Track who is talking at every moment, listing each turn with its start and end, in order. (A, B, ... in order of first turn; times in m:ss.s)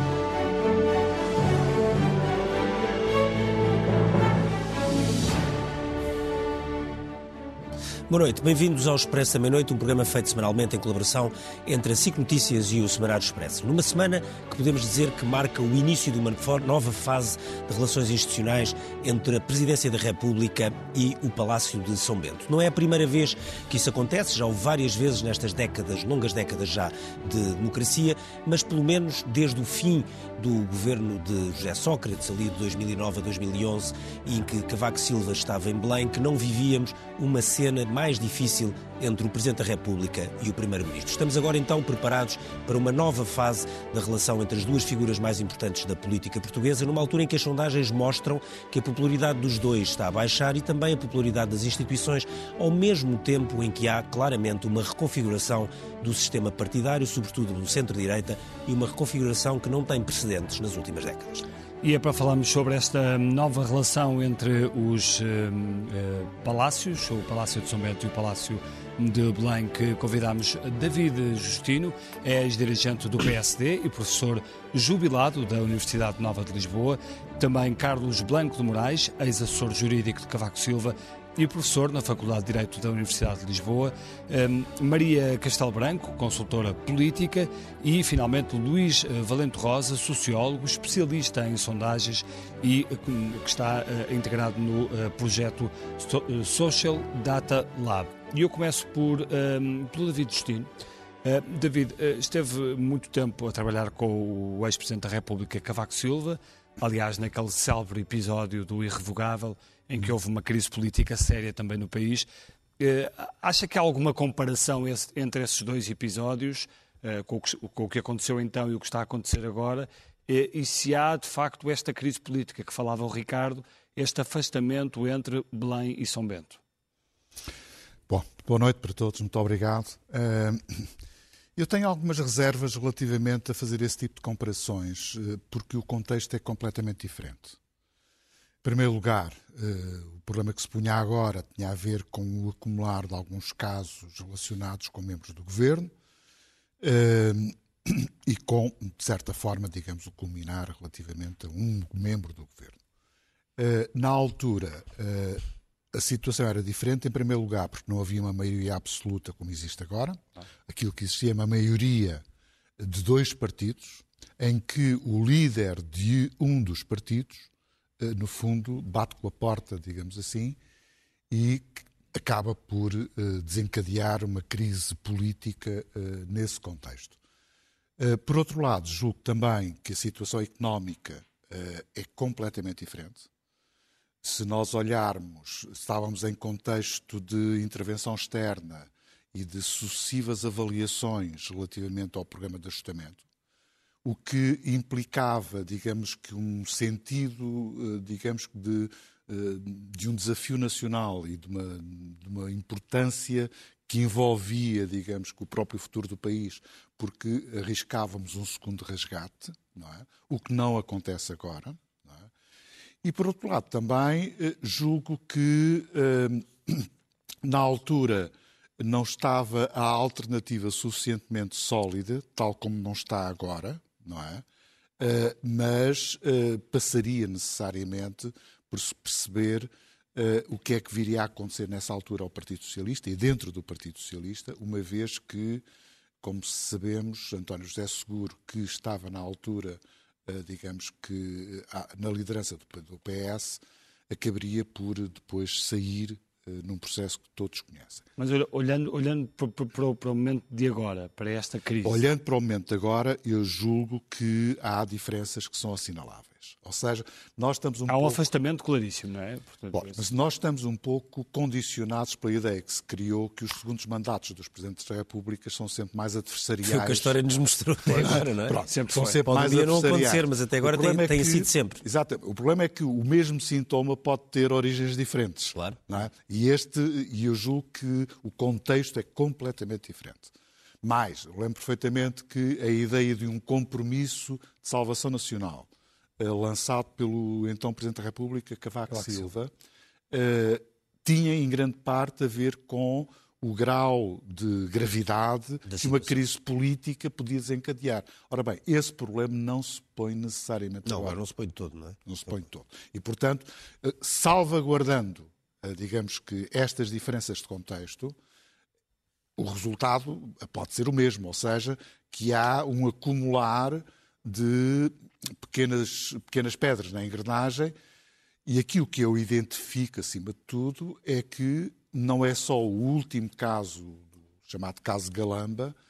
0:08.1-1:01.5 A
1:01.8-1:40.7 B
1:41.2-1:52.3 B
1:52.8-2:06.6 B
2:08.1-2:10.9 C
2:11.6-2:17.6 C
2:18.6-2:25.9 C
2:26.8-2:32.8 C
2:33.6-2:42.2 C
2:42.8-2:50.6 C
2:51.3-2:57.2 C
2:58.0-3:03.3 C
3:04.2-3:13.2 C
3:14.0-3:32.3 C
3:33.0-3:36.9 C
3:37.4-3:44.4 C
3:45.0-3:55.6 C
3:56.2-4:08.0 C
4:08.2-4:12.0 B
4:11.8-4:18.2 C
4:17.9-4:20.0 B
4:19.7-4:27.4 C
4:26.6-4:28.6 A
4:27.9-4:29.2 B
4:28.0-4:40.3 C
4:29.2-4:31.8 A
4:40.8-4:45.7 C
4:46.2-4:49.5 C
4:50.1-5:01.2 C
4:55.6-4:56.2 A
5:00.8-5:02.0 A
5:02.0-5:08.2 C
5:09.4-5:17.7 C
5:18.4-5:25.8 C